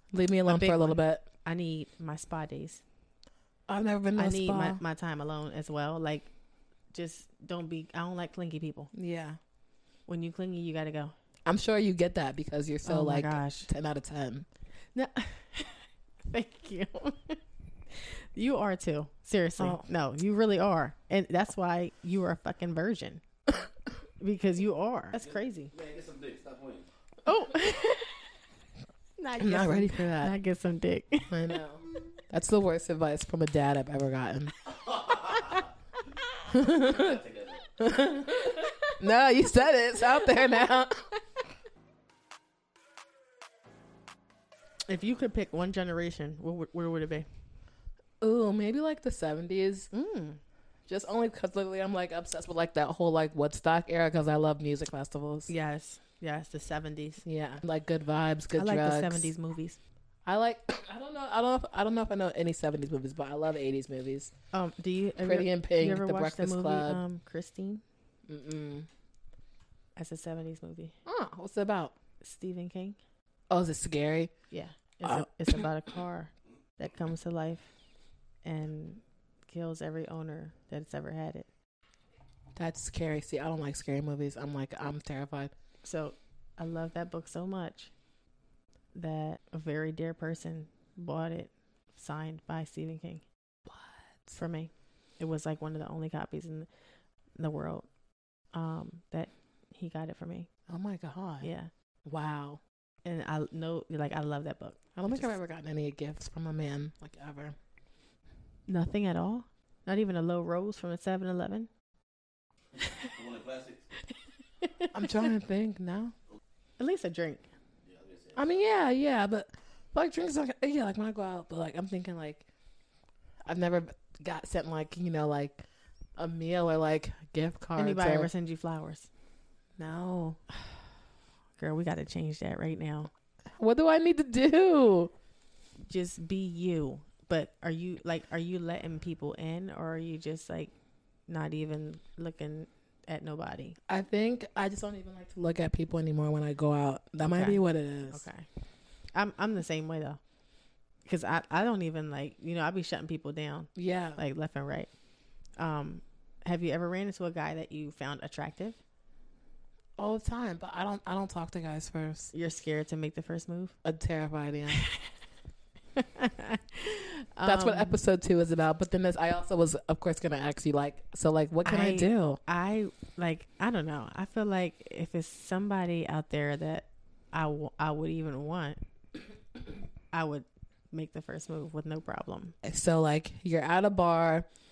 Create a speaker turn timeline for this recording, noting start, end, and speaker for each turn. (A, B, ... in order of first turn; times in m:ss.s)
0:00.1-0:01.2 A
0:00.5-0:02.8 B
0:03.7-0:04.8 A
0:04.2-0:06.3 B
0:06.9-0:08.9 B
0:08.9-0:09.4 A
0:10.1-0:11.1 B
0:11.5-0:14.5 A
0:12.8-0:13.7 B
0:15.0-0:17.4 B
0:17.9-0:23.2 B
0:19.6-0:19.9 A
0:24.2-0:25.7 B
0:25.1-0:26.9 C
0:27.2-0:28.3 B
0:29.2-0:31.6 B
0:29.4-0:30.3 A
0:31.3-0:34.6 A
0:34.8-0:35.7 C
0:36.5-0:37.2 A
0:36.7-0:37.7 C
0:37.8-0:41.1 A
0:44.9-0:47.3 B
0:48.2-0:49.9 A
0:49.9-0:50.4 B
0:50.9-0:55.5 A
0:55.5-0:57.2 B
0:57.2-0:59.3 A
0:58.6-0:59.8 B
1:00.2-1:04.3 A
1:04.5-1:07.8 B
1:05.2-1:07.0 A
1:08.3-1:08.9 A
1:10.0-1:11.0 B
1:11.1-1:12.0 A
1:12.2-1:13.0 B
1:13.5-1:14.3 A
1:14.5-1:17.7 B
1:15.0-1:15.6 A
1:18.4-1:21.5 B
1:22.6-1:25.5 A
1:25.8-1:27.9 B
1:28.9-1:33.3 B
1:33.7-1:34.4 A
1:34.4-1:36.7 B
1:37.4-1:37.9 B
1:38.5-1:40.5 B
1:40.7-1:41.5 A
1:41.4-1:41.7 B
1:42.1-1:42.6 A
1:43.0-1:45.3 B
1:45.0-1:47.6 A
1:48.7-1:51.7 B
1:53.0-1:53.9 C
1:54.6-1:55.3 B
1:54.9-1:56.1 A
1:56.8-1:57.5 B
1:57.8-1:58.5 C
1:58.4-2:02.5 A
2:03.5-2:05.6 A
2:06.2-2:08.3 A
2:07.8-2:09.1 B
2:09.8-2:10.4 A
2:11.6-2:13.1 B
2:13.6-2:15.1 A
2:15.8-2:20.7 B
2:21.3-2:23.8 B
2:23.9-2:28.3 A
2:27.2-2:28.5 B
2:29.1-2:30.2 B
2:31.0-2:34.9 B
2:33.8-2:34.2 A
2:35.6-2:38.8 B
2:40.0-2:42.3 A
2:42.3-2:43.8 B
2:43.8-2:44.8 A
2:44.7-2:45.0 B
2:46.0-2:48.0 B
2:47.4-2:52.4 A
2:51.6-2:58.8 B
3:00.1-3:02.6 B
3:02.6-3:04.5 A